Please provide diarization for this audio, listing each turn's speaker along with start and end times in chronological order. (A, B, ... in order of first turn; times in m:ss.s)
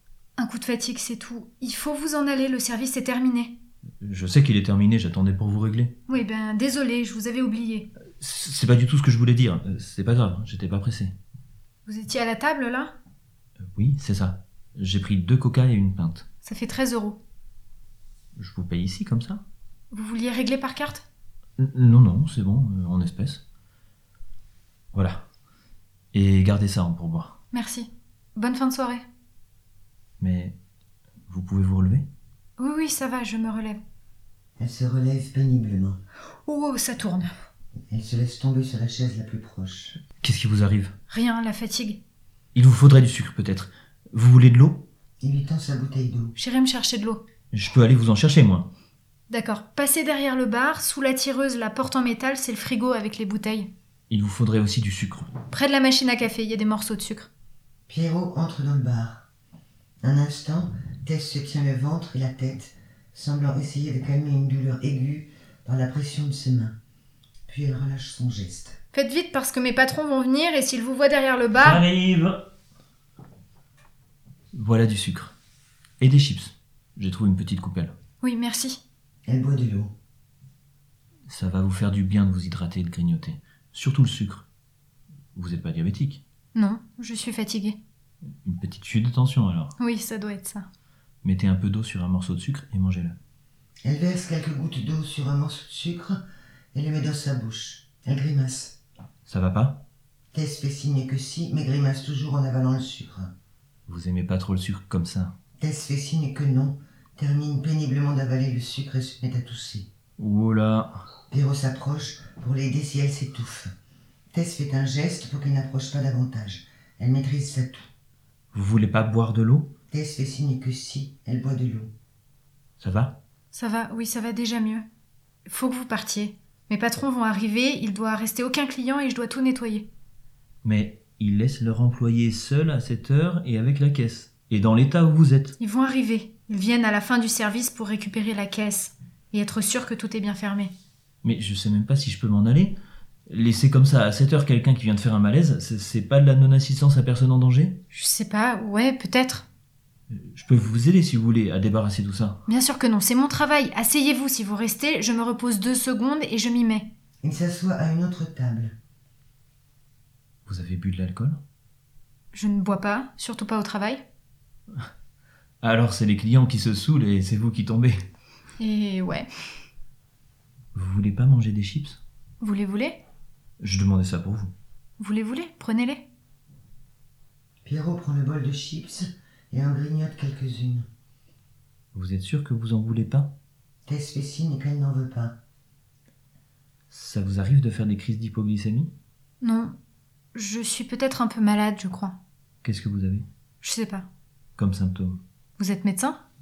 0:00.4-0:03.6 A
0:04.0-0:05.9 B
0:06.1-0:07.9 A
0:08.2-0:11.1 B
0:11.9-0:12.9 A
0:13.7-0:16.3 B
0:16.4-0:17.2 A
0:18.4-0:19.4 B
0:19.9-0:21.0 A
0:21.6-0:23.4 B
0:24.9-0:25.2 B
0:26.1-0:27.4 B
0:27.5-0:29.0 A
0:30.2-0:30.5 B
0:31.3-0:32.0 B
0:32.6-0:33.8 A
0:34.6-0:36.0 C
0:36.4-0:37.3 A
0:37.9-0:40.0 C
0:40.2-0:40.9 B
0:41.1-0:42.0 A
0:42.6-0:44.8 B
0:45.2-0:46.3 C
0:46.4-0:47.2 A
0:47.5-0:48.7 B
0:49.3-0:53.7 A
0:54.1-0:55.4 B
0:55.5-0:57.3 A
0:57.9-0:59.2 C
1:00.0-1:06.8 C
1:07.5-1:08.8 C
1:08.9-1:11.8 A
1:11.5-1:12.4 B
1:14.5-1:15.3 B
1:16.0-1:17.9 B
1:18.2-1:18.8 A
1:19.3-1:19.9 C
1:21.3-1:24.5 B
1:25.4-1:26.2 B
1:26.6-1:27.8 A
1:28.4-1:29.7 B
1:29.8-1:30.6 A
1:31.2-1:33.2 B
1:33.8-1:36.2 C
1:36.7-1:38.8 C
1:39.3-1:39.8 B
1:40.3-1:43.3 C
1:43.9-1:45.3 B
1:45.6-1:49.9 C
1:50.2-1:50.9 B
1:51.3-1:53.7 C
1:54.3-1:57.8 C
1:58.5-1:59.7 B
1:59.9-2:01.9 C
2:02.8-2:03.2 B
2:03.5-2:04.9 A
2:05.5-2:09.9 A
2:10.6-2:15.6 B
2:15.6-2:20.7 A
2:21.2-2:22.8 B
2:23.3-2:27.8 B
2:27.9-2:29.5 A
2:30.1-2:32.4 B
2:32.5-2:36.9 A
2:37.2-2:38.8 C
2:40.5-2:41.4 B
2:42.3-2:44.0 A
2:45.6-2:48.0 B
2:48.6-2:49.3 A
2:50.8-2:52.0 B
2:52.4-2:53.0 A
2:53.6-2:54.5 B
2:55.0-2:56.1 A
2:57.6-3:00.9 C
3:01.9-3:03.3 B
3:03.8-3:05.4 C
3:06.9-3:08.9 B
3:09.4-3:09.8 A
3:10.3-3:12.2 A
3:12.6-3:13.2 B
3:13.6-3:14.1 A
3:14.6-3:15.2 B
3:15.6-3:16.2 A